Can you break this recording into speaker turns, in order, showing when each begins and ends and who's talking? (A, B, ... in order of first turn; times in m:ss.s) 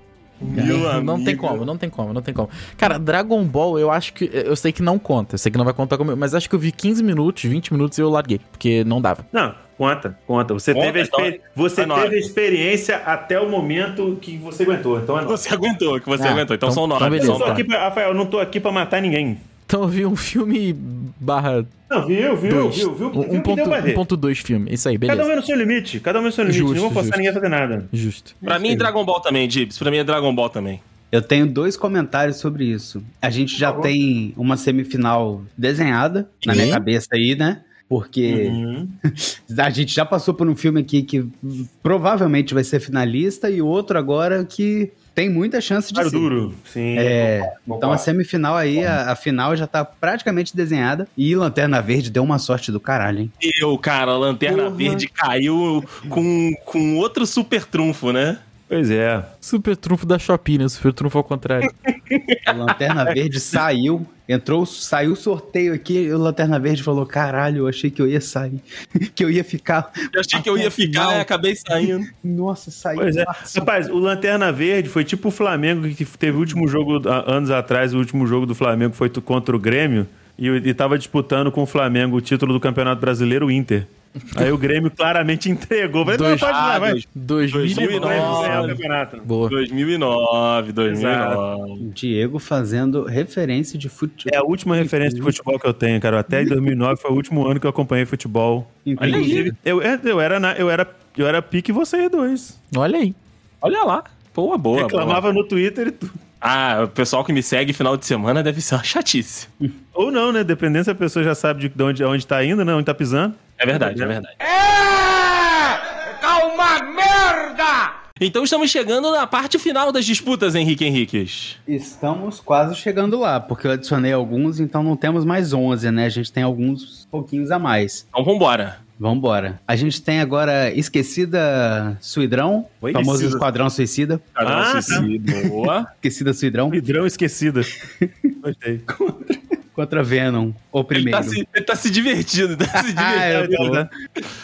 0:00.5-0:01.6 A
0:00.5-0:09.3 B
0:09.3-0:15.4 C
0:10.7-0:12.3 A
0:15.3-0:17.6 A
0:16.2-0:17.7 B
0:17.1-0:19.4 C
0:19.7-0:21.7 B
0:21.9-0:24.0 C
0:22.5-0:25.3 B
0:25.1-0:27.9 C
0:26.5-0:27.4 B
0:27.9-0:28.4 B
0:28.4-0:28.9 D
0:28.4-0:30.8 A
0:31.1-0:46.3 D
0:33.6-0:33.9 C
0:36.4-0:36.8 B
0:38.3-0:39.0 C
0:46.0-0:48.0 C
0:47.0-0:53.3 D
0:53.4-0:58.4 A
0:54.5-0:55.0 C
0:58.7-0:59.3 C
0:59.4-1:01.7 B
1:02.1-1:02.5 A
1:02.5-1:11.3 D
1:10.1-1:12.1 A
1:11.8-1:13.7 D
1:13.0-1:27.0 C
1:26.0-1:26.6 B
1:26.4-1:28.8 A
1:27.1-1:29.6 B
1:27.7-1:29.3 C
1:29.5-1:31.8 A
1:30.9-1:31.4 C
1:31.8-1:35.3 D
1:34.3-1:42.6 C
1:38.9-1:39.5 D
1:39.0-1:39.5 A
1:42.7-1:43.2 B
1:43.6-1:45.2 A
1:44.8-1:46.2 C
1:46.4-1:49.5 A
1:50.0-1:54.2 C
1:53.6-2:01.6 A
2:01.7-2:08.0 D
2:08.1-2:08.8 A
2:09.0-2:14.3 D
2:12.8-2:13.2 C
2:13.0-2:13.4 A
2:14.4-2:15.9 A
2:14.4-2:15.1 C
2:16.0-2:16.8 D
2:16.7-2:17.7 C
2:18.0-2:18.3 D
2:18.4-2:18.8 C
2:18.9-2:21.4 D
2:20.9-2:23.5 A
2:22.7-2:23.9 D
2:23.2-2:23.9 C